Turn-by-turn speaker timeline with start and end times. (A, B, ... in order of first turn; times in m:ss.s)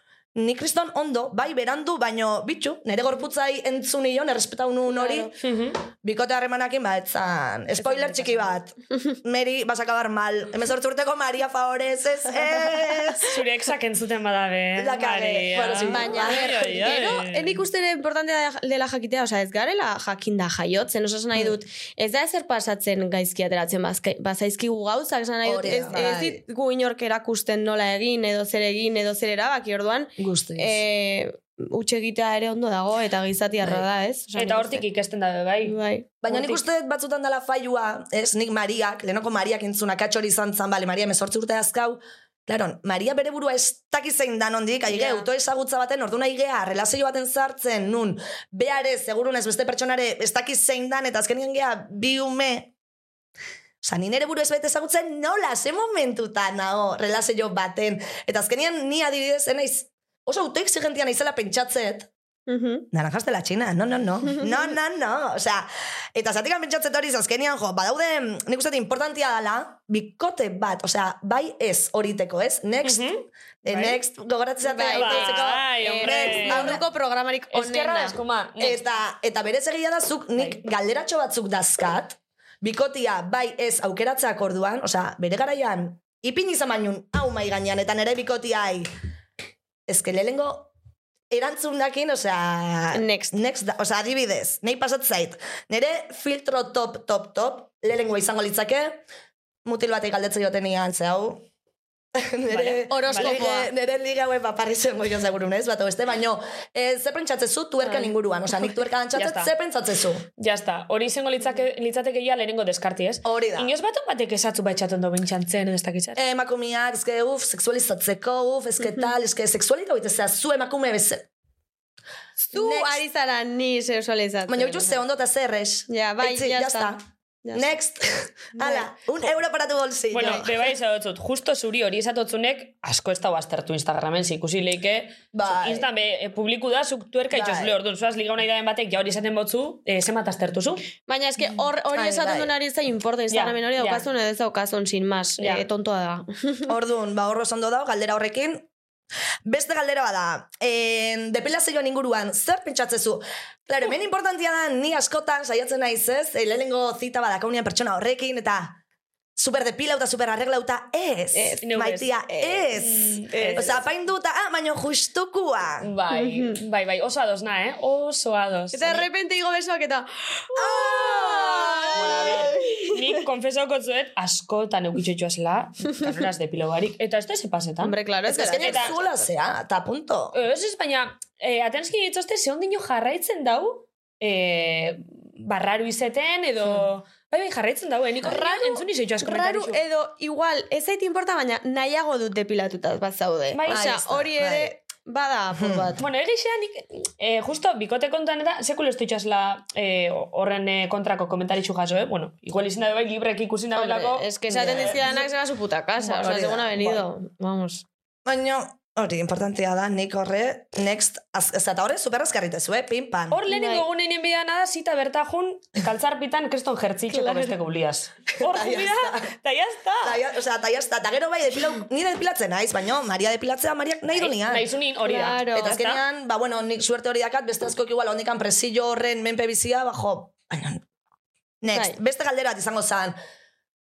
0:00.3-0:05.4 A
0:04.9-0:05.3 B
0:05.4-0:05.8 C
0:05.9-0:13.4 A
0:07.9-0:08.4 C
0:13.1-0:17.6 C
0:14.8-0:16.5 A
0:15.8-0:34.8 B
0:25.4-0:26.4 A
0:30.2-0:30.8 A
0:34.3-0:35.7 C
0:35.6-0:36.6 B
0:36.2-0:52.7 A
0:44.9-0:45.3 B
0:53.8-1:02.1 A
1:02.5-1:02.8 B
1:02.9-1:16.8 A
1:04.3-1:04.7 B
1:12.8-1:14.0 C
1:14.6-1:18.2 B
1:14.8-1:16.8 C
1:17.5-1:18.8 C
1:18.6-1:28.9 A
1:29.9-1:30.7 A
1:31.3-1:39.0 A
1:32.9-1:33.3 B
1:39.6-1:41.4 A
1:42.2-1:50.2 A
1:42.5-1:43.4 C
1:42.6-1:43.7 B
1:47.8-1:48.2 B
1:49.1-1:49.5 C
1:50.4-1:56.2 C
1:53.2-1:53.7 A
1:56.2-2:01.3 A
2:02.4-2:05.0 B
2:02.5-2:03.0 A
2:04.5-2:10.6 A
2:05.9-2:07.8 B
2:08.5-2:09.3 B
2:10.1-2:20.9 C
2:15.3-2:15.9 A
2:17.3-2:17.7 A
2:21.0-2:26.6 B
2:21.9-2:22.5 A
2:23.3-2:24.1 C
2:25.4-2:25.6 C
2:26.7-2:28.7 A
2:29.4-2:38.8 A
2:39.4-2:45.9 A
2:41.3-2:41.6 B
2:41.6-2:42.1 C
2:42.3-2:42.7 B
2:42.7-2:43.8 C
2:43.3-2:43.8 B
2:45.8-2:49.1 C
2:46.1-2:46.6 B
2:48.7-2:53.2 B
2:50.5-2:52.5 A
2:51.9-2:59.0 C
2:57.8-2:59.3 B
2:58.3-3:00.3 A
3:00.3-3:09.8 C
3:08.2-3:16.0 B
3:13.5-3:13.9 C
3:13.7-3:14.7 A
3:15.5-3:15.9 A
3:16.0-3:25.1 C
3:23.7-3:27.8 B
3:24.7-3:25.0 A
3:26.0-3:27.0 A
3:28.2-3:33.4 A
3:33.3-3:40.2 C
3:33.5-3:33.8 B
3:37.1-3:37.6 B
3:38.4-3:39.3 A
3:40.0-3:44.7 A
3:44.1-3:46.0 C
3:45.0-3:45.8 B
3:45.5-3:50.8 A
3:51.6-3:53.2 A
3:51.7-3:52.0 B